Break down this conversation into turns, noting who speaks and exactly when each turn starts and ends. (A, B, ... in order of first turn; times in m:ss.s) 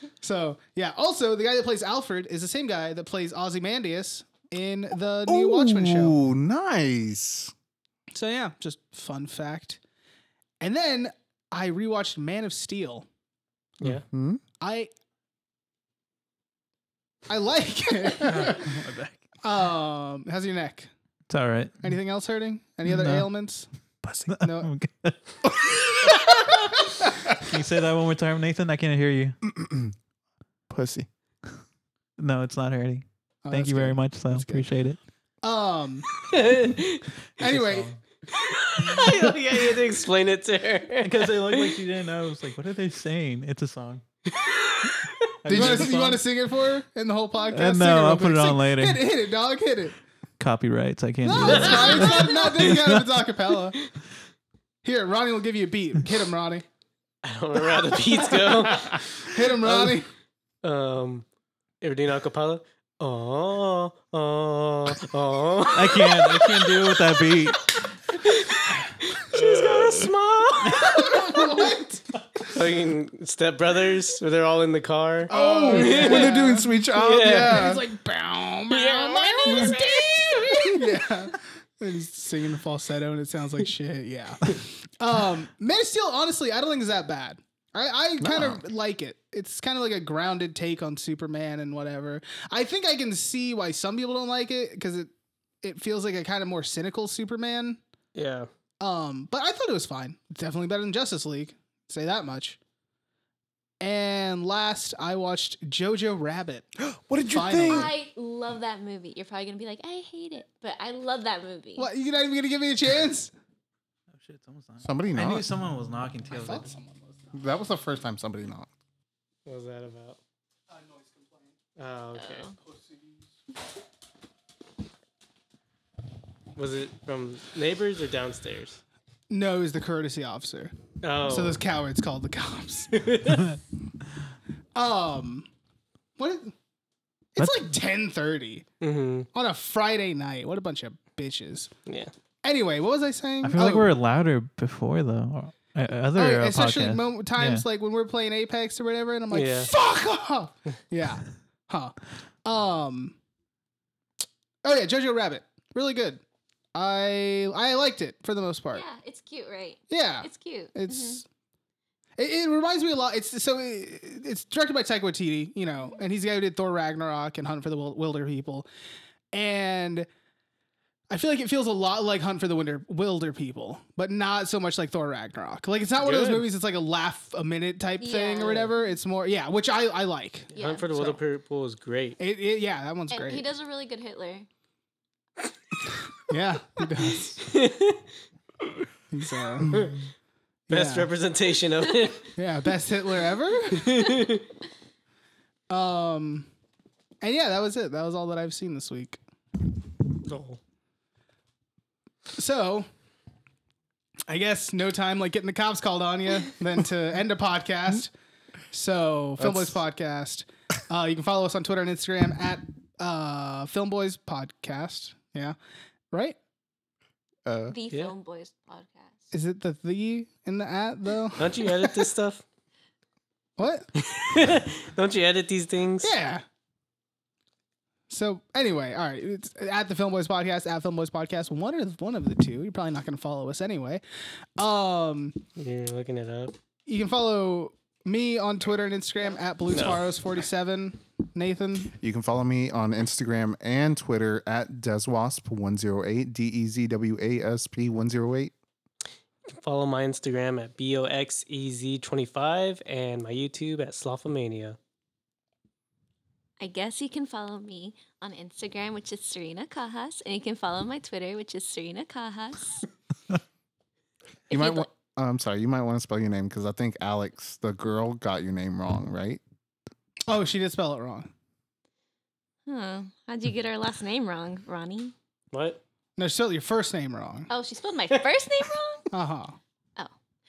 0:00.2-0:06.2 A
0:05.2-0:07.5 B
0:08.1-0:09.8 A
0:10.6-0:13.0 A
0:14.1-0:14.4 B
0:14.6-0:14.9 A
0:17.3-0:18.8 A
0:18.2-0:19.3 C
0:19.4-0:20.9 A
0:21.3-0:21.8 C
0:21.8-0:23.7 A
0:22.8-0:23.3 C
0:24.0-0:25.2 C
0:24.4-0:24.7 A
0:27.3-0:29.4 C
0:29.4-0:29.9 B
0:30.7-0:31.1 B
0:32.2-0:35.0 C
0:33.4-0:34.7 A
0:35.4-0:36.1 A
0:36.3-0:37.0 D
0:37.4-0:37.9 A
0:37.4-0:38.0 C
0:38.3-0:41.8 D
0:38.8-0:39.3 C
0:41.0-0:44.0 C
0:44.3-0:45.2 D
0:45.4-0:46.2 C
0:45.4-0:45.9 B
0:45.5-0:50.0 A
0:47.5-0:49.1 C
0:50.4-0:53.2 C
0:51.2-0:53.9 A
0:51.4-0:52.2 D
0:54.8-0:56.6 A
0:57.2-0:59.0 D
0:59.3-1:00.1 A
0:59.6-1:00.0 D
1:00.6-1:01.2 D
1:01.8-1:06.7 D
1:05.7-1:07.7 C
1:08.2-1:11.4 D
1:10.6-1:11.0 C
1:10.7-1:12.5 A
1:12.5-1:16.4 D
1:15.3-1:16.7 A
1:15.3-1:17.8 B
1:16.9-1:17.7 D
1:17.3-1:35.1 A
1:18.7-1:20.8 D
1:19.2-1:20.7 E
1:28.2-1:28.6 B
1:35.6-1:37.8 A
1:38.1-1:38.5 D
1:38.8-1:42.6 A
1:43.8-1:46.7 A
1:46.8-1:47.9 B
1:47.3-1:47.9 A
1:47.6-1:51.9 E
1:51.8-1:53.3 A
1:54.1-1:56.7 C
1:54.8-1:55.4 B
1:56.3-1:57.3 A
1:57.3-1:58.7 B
1:59.4-2:00.2 D
2:00.7-2:01.5 A
2:01.8-2:02.5 D
2:02.1-2:02.5 E
2:02.6-2:03.0 A
2:06.6-2:08.8 D
2:09.3-2:10.7 A
2:11.0-2:11.6 D
2:11.2-2:13.1 A
2:12.9-2:13.4 D
2:14.7-2:15.5 A
2:16.2-2:16.5 A
2:17.4-2:18.6 A
2:17.4-2:17.7 C
2:18.8-2:19.3 D
2:19.3-2:21.7 A
2:21.8-2:22.1 D
2:22.4-2:24.0 A
2:23.4-2:27.6 C
2:26.1-2:33.2 A
2:29.3-2:29.7 D
2:34.6-2:36.2 A
2:36.7-2:38.8 A
2:38.7-2:41.2 E
2:39.9-2:41.2 A
2:42.2-2:48.7 A
2:49.3-2:50.1 A
2:51.1-3:01.2 A
2:56.0-2:56.5 D
2:58.0-2:58.7 E
2:58.4-2:58.7 D
3:00.5-3:00.9 E
3:00.6-3:02.2 D
3:02.2-3:03.4 A
3:03.1-3:04.5 E
3:06.2-3:07.5 A
3:07.4-3:08.0 D
3:09.1-3:09.9 A
3:09.7-3:10.0 D
3:10.7-3:11.1 A
3:10.7-3:12.3 D
3:12.4-3:14.2 A
3:13.7-3:14.4 D
3:15.7-3:16.5 A
3:17.2-3:19.2 A
3:20.2-3:20.6 D
3:22.3-3:22.9 A
3:24.3-3:28.1 A
3:28.7-3:35.5 A
3:29.4-3:29.8 B
3:36.1-3:36.4 A
3:37.4-3:37.7 B
3:37.7-3:39.3 E
3:39.3-3:41.6 A
3:41.4-3:42.4 D
3:43.6-3:43.9 A
3:44.0-3:46.1 D
3:46.0-3:46.4 A
3:48.1-3:54.0 A
3:54.6-3:55.4 A
3:55.6-3:56.5 D
3:56.8-4:02.0 A
3:59.7-4:00.0 D
4:02.0-4:08.5 B
4:09.5-4:14.8 D
4:16.6-4:22.9 E
4:24.5-4:24.8 E
4:24.5-4:29.4 B
4:30.3-4:31.3 A
4:32.6-4:35.1 E
4:35.5-4:35.8 D
4:36.2-4:37.5 A
4:37.5-4:39.1 E
4:39.1-4:39.6 A